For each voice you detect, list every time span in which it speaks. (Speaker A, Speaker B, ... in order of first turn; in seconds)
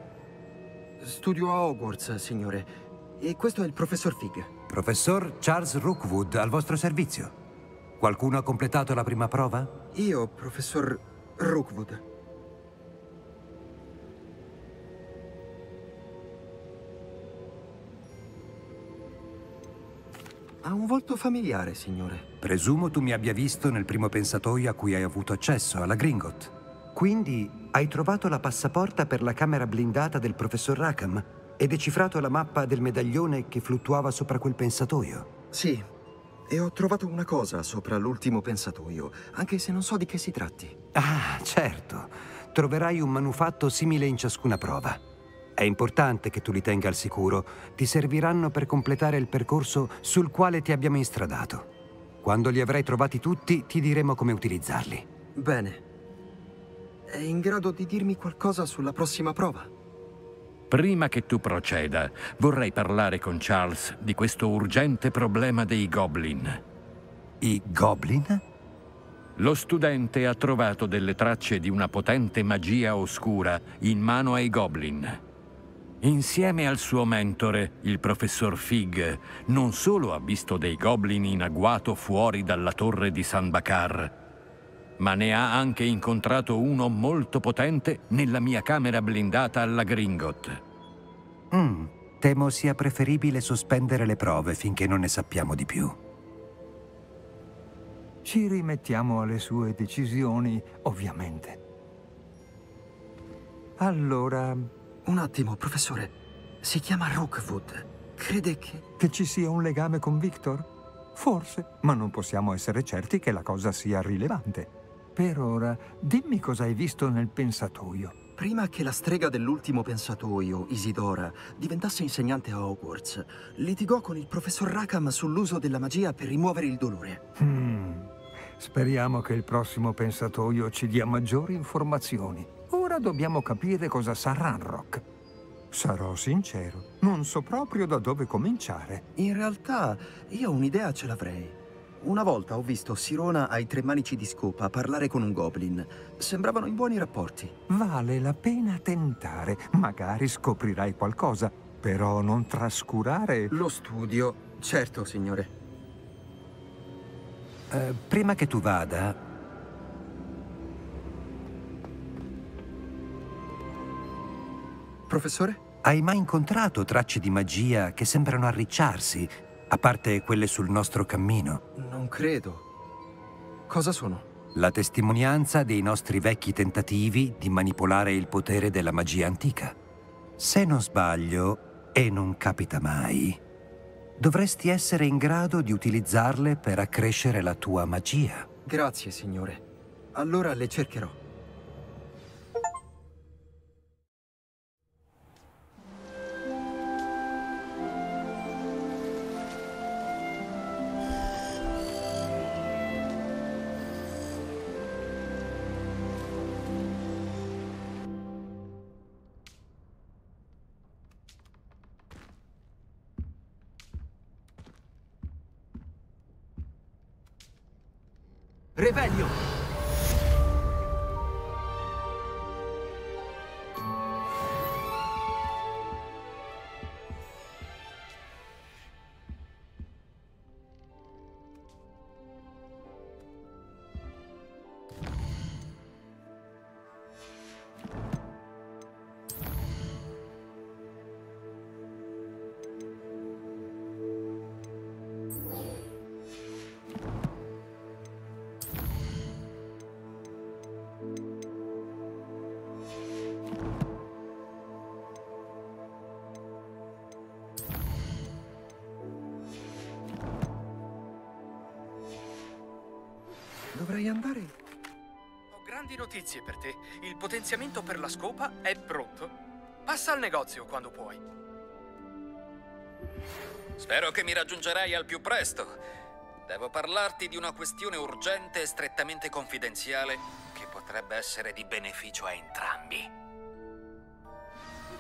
Speaker A: 1.0-4.5, 9.9-12.0, 20.6-22.3, 35.5-35.9, 36.5-40.8, 55.4-55.8, 57.1-59.7, 105.0-108.8, 118.4-127.2, 139.2-147.6, 153.5-155.5, 165.1-165.6, 171.8-172.7, 173.7-174.3, 188.7-191.2, 263.7-264.5
Speaker B: 4.7-7.3, 8.0-9.8, 22.4-35.3, 41.0-45.0, 45.6-51.7, 52.2-55.0, 67.4-68.4, 91.5-96.0, 157.7-159.2, 165.8-171.6, 174.6-179.8, 180.4-183.4, 184.2-188.5
Speaker C: 60.7-66.6, 69.4-75.2, 76.0-84.1, 85.0-90.6, 273.8-275.8, 276.5-283.1
Speaker D: 98.2-101.6, 103.8-104.7, 109.0-118.2, 127.4-135.0, 135.7-139.0, 147.7-153.5
Speaker E: 265.5-269.4, 269.9-271.2